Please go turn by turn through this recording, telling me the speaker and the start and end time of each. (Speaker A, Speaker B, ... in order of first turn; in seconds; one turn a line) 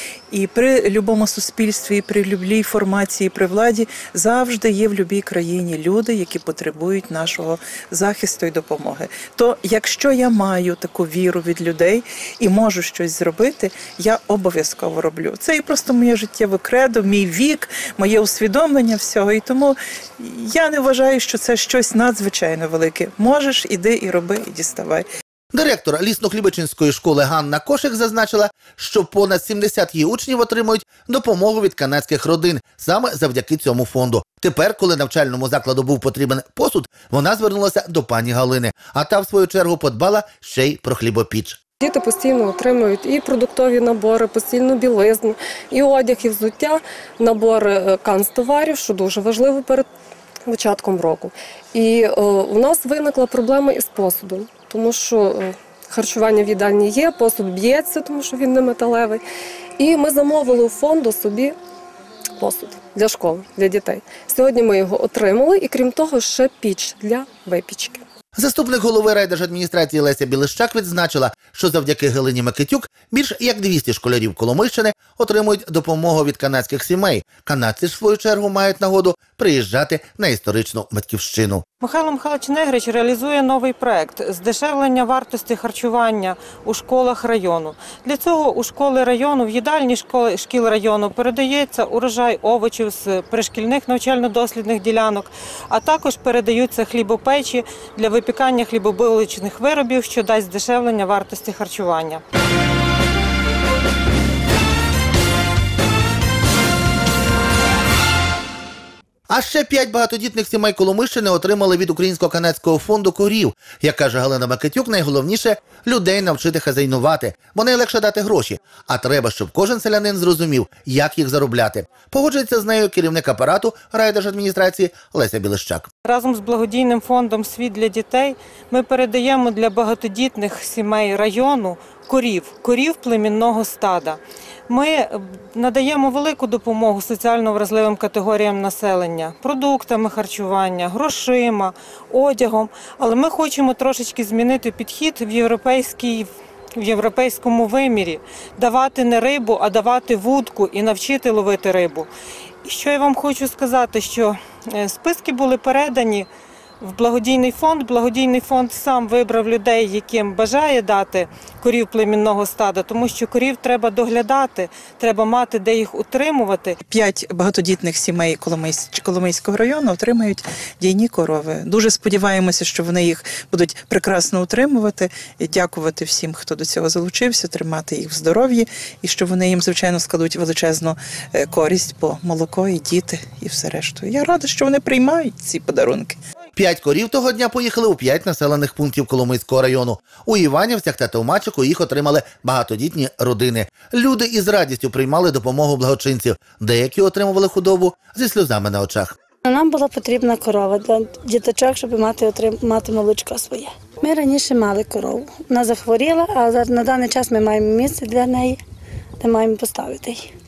Speaker A: 0.3-25.1
Speaker B: 25.5-41.6
Speaker C: 41.8-49.9
Speaker C: 50.5-59.2
Speaker C: 59.8-61.5
Speaker C: 62.4-68.0
Speaker B: 68.3-81.6
Speaker D: 81.8-102.2
Speaker B: 109.3-125.9
Speaker D: 126.0-152.1
Speaker D: 152.6-156.3
Speaker D: 156.8-166.8
Speaker A: 166.9-186.2
Speaker B: 186.6-199.1
Speaker E: 199.5-208.6
Speaker E: 209.2-210.3